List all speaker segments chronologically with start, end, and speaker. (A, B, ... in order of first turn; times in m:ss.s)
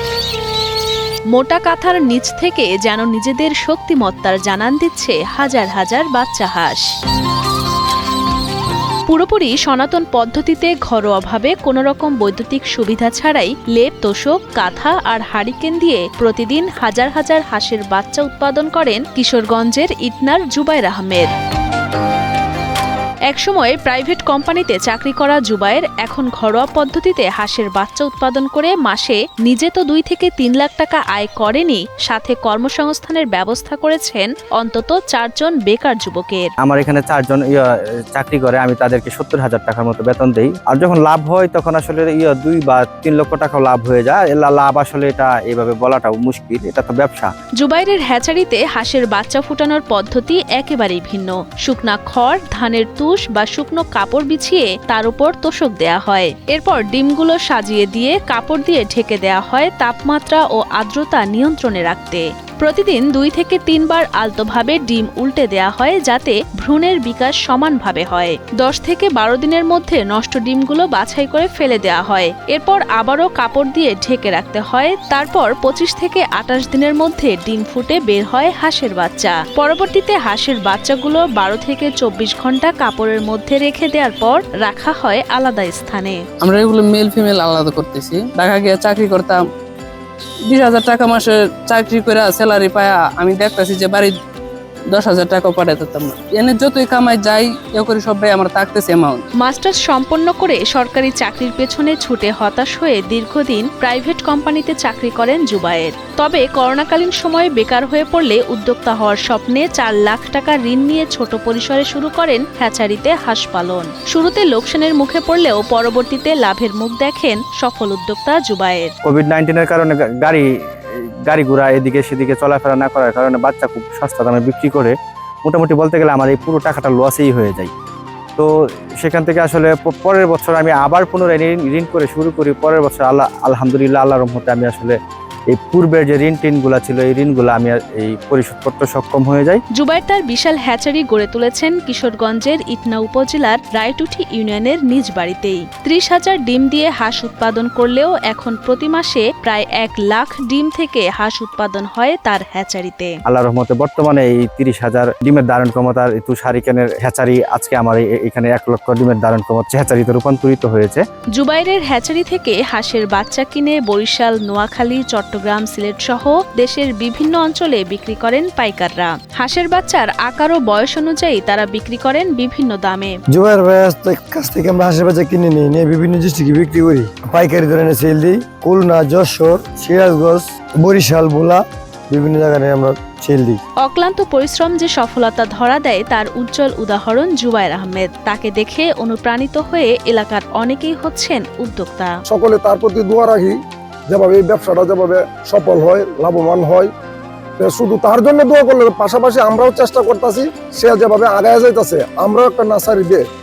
0:01.3-0:06.9 A
0:09.1-0:21.3 A
0:23.3-0:36.5 A
0:36.6-0:47.3 B
0:47.6-1:26.2 A
1:26.4-1:29.4 C
1:30.5-1:34.1 C
1:34.9-1:39.2 C
1:39.4-1:58.9 A
1:59.0-2:00.5 B
2:01.2-2:07.7 B
2:08.4-2:15.0 B
2:15.5-2:19.6 B
2:19.7-2:33.2 A
2:33.2-2:41.0 B
2:41.4-2:53.2 A
2:53.3-3:03.6 D
3:03.8-3:12.1 A
3:12.3-3:13.6 E
3:14.1-3:16.9 E
3:17.6-3:23.2 E